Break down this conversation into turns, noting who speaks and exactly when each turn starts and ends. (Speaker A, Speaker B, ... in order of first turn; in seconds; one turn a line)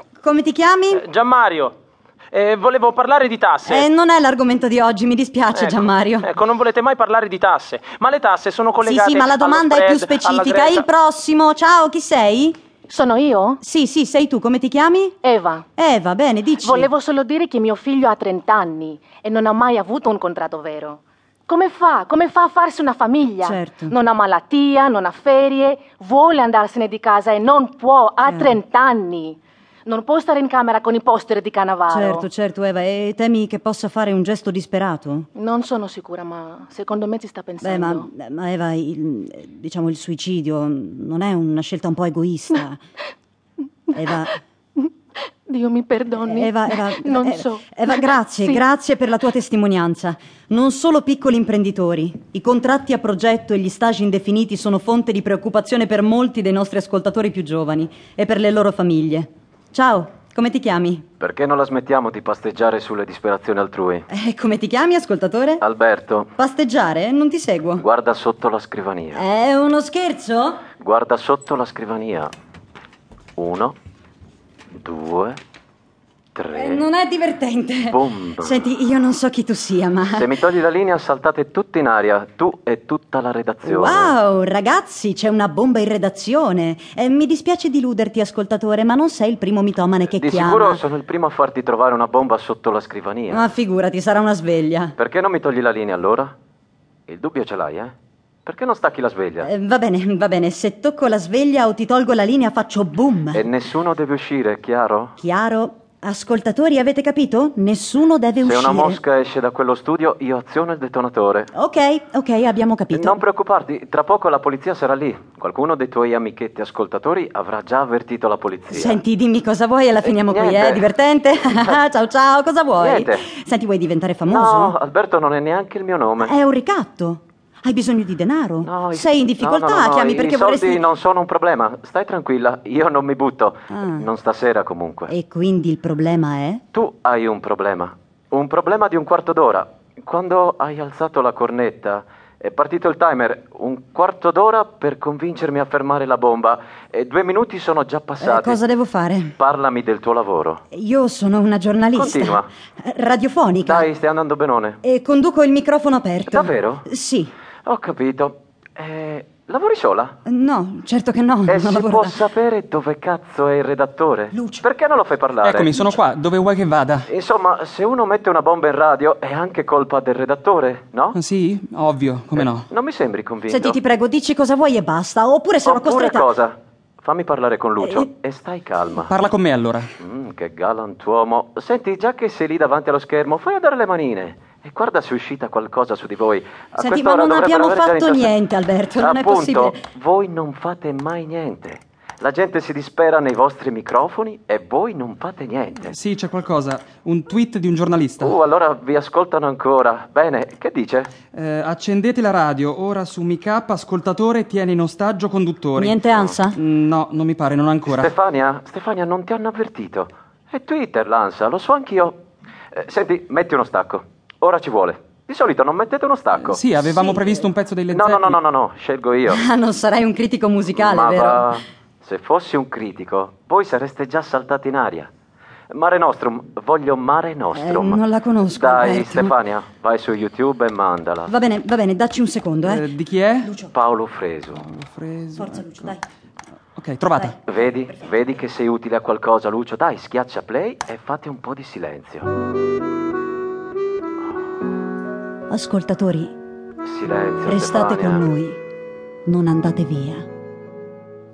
Speaker A: 0.2-1.1
Speaker B: 0.9-1.8
Speaker B: 2.3-3.9
Speaker A: 3.7-6.3
Speaker B: 5.5-10.8
Speaker A: 8.8-12.6
Speaker C: 12.9-13.6
Speaker A: 13.6-15.2
Speaker C: 15.2-15.7
Speaker A: 15.8-16.9
Speaker C: 16.6-29.3
Speaker A: 23.4-24.0
Speaker B: 25.3-26.6
Speaker A: 28.3-28.6
Speaker B: 28.7-29.3
Speaker C: 29.9-32.3
Speaker A: 31.9-35.3
Speaker C: 35.4-38.1
Speaker A: 37.6-42.8
Speaker A: 43.9-44.4
Speaker C: 45.5-47.6
Speaker A: 46.2-61.0
Speaker D: 61.2-64.1
Speaker A: 64.1-65.6
Speaker D: 65.6-66.3
Speaker A: 66.4-67.8
Speaker D: 67.8-69.2
Speaker A: 69.2-70.7
Speaker D: 70.8-72.3
Speaker D: 73.4-73.8
Speaker D: 74.7-75.4
Speaker D: 76.3-76.9
Speaker A: 76.5-80.3
Speaker D: 77.9-78.7
Speaker D: 80.1-84.2
Speaker A: 83.7-90.8
Speaker D: 90.2-93.5
Speaker A: 93.3-94.9
Speaker D: 95.0-96.3
Speaker D: 97.1-97.9
Speaker D: 98.5-99.5
Speaker A: 99.4-103.4
Speaker D: 103.3-105.2
Speaker A: 105.2-109.0
Speaker D: 108.4-111.5
Speaker A: 111.5-113.2
Speaker D: 112.9-119.0
Speaker A: 118.7-124.8
Speaker D: 120.0-120.9
Speaker D: 122.8-123.3
Speaker D: 124.2-126.3
Speaker A: 126.2-130.8
Speaker D: 128.6-135.1
Speaker A: 133.7-134.1
Speaker A: 135.1-136.6
Speaker D: 136.7-148.6
Speaker A: 148.2-149.3
Speaker D: 149.4-150.6
Speaker A: 150.7-153.9
Speaker D: 151.9-152.5
Speaker D: 153.6-154.8
Speaker A: 154.8-157.3
Speaker D: 156.3-156.9
Speaker D: 157.7-160.2
Speaker A: 160.3-162.2
Speaker D: 161.5-165.8
Speaker A: 164.3-164.6
Speaker E: 165.4-167.1
Speaker D: 167.1-171.2
Speaker E: 171.1-172.7
Speaker D: 172.4-173.8
Speaker A: 173.5-176.3
Speaker D: 175.6-179.2
Speaker A: 177.8-178.1
Speaker E: 179.1-179.9
Speaker D: 180.0-188.3
Speaker A: 186.8-189.8
Speaker D: 189.0-196.0
Speaker E: 195.9-198.3
Speaker D: 198.2-201.1
Speaker E: 201.3-206.0
Speaker A: 205.8-206.6
Speaker E: 206.6-208.1
Speaker D: 207.9-212.2
Speaker D: 212.7-216.6
Speaker E: 216.4-218.4
Speaker A: 216.9-217.4
Speaker D: 217.9-219.4
Speaker A: 219.3-221.5
Speaker D: 220.7-225.1
Speaker D: 225.7-231.3
Speaker A: 227.5-229.3
Speaker A: 231.3-232.9
Speaker E: 232.6-233.5
Speaker A: 233.4-233.7
Speaker D: 233.7-234.7
Speaker E: 234.5-235.9
Speaker A: 235.4-236.0
Speaker E: 236.8-237.4
Speaker A: 237.2-238.2
Speaker D: 237.5-242.3
Speaker A: 245.5-246.3
Speaker D: 246.8-248.3
Speaker A: 247.5-248.6
Speaker A: 249.3-250.3